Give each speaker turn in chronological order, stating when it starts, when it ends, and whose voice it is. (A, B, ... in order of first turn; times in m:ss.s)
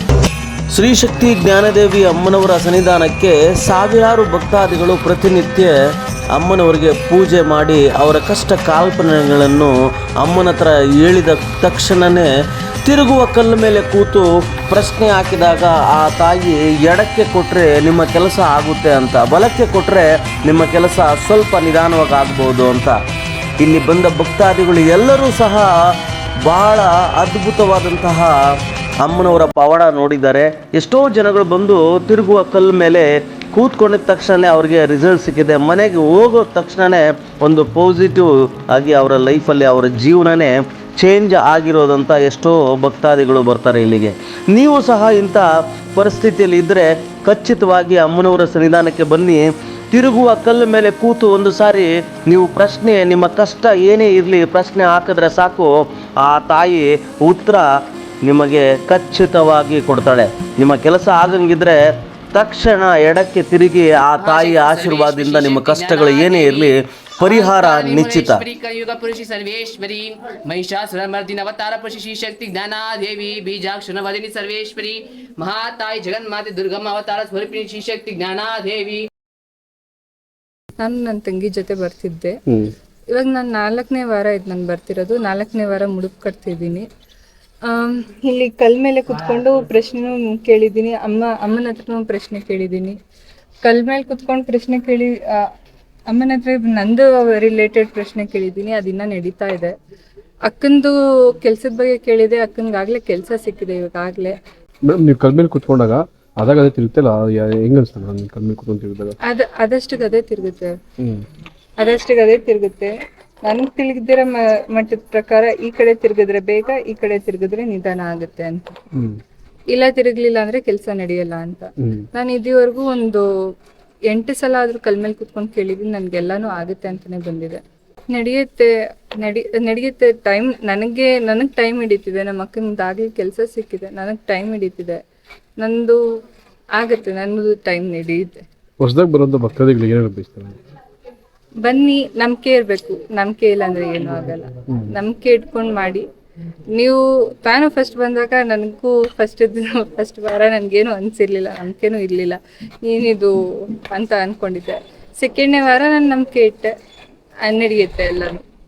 0:00.7-0:05.7 A
0:06.3-0:12.3 A
0:12.8-0:23.0 A
0:23.6-0:25.8 A
0:26.5-0:28.4 A
0:29.0-0:57.6 A
0:58.2-1:01.8 A
1:02.3-1:08.4 A
1:04.2-1:06.7 B
1:07.3-1:19.0 B
1:20.8-1:22.4 C
1:23.1-1:26.9 C
1:27.7-1:33.0 C
1:33.6-1:35.4 C
1:36.1-1:39.7 C
1:40.5-1:44.3 C
1:44.9-1:49.1 D
1:49.3-1:50.7 C
1:51.8-1:52.9 C
1:53.4-1:58.7 C
1:59.7-2:03.2 C
2:04.1-2:07.6 C
2:08.1-2:08.7 C
2:09.2-2:15.0 C
2:15.6-2:16.0 C
2:16.8-2:18.4 C
2:18.8-2:20.6 D
2:21.6-2:26.0 C
2:26.8-2:33.3 C
2:33.9-2:36.7 C
2:37.5-2:38.4 C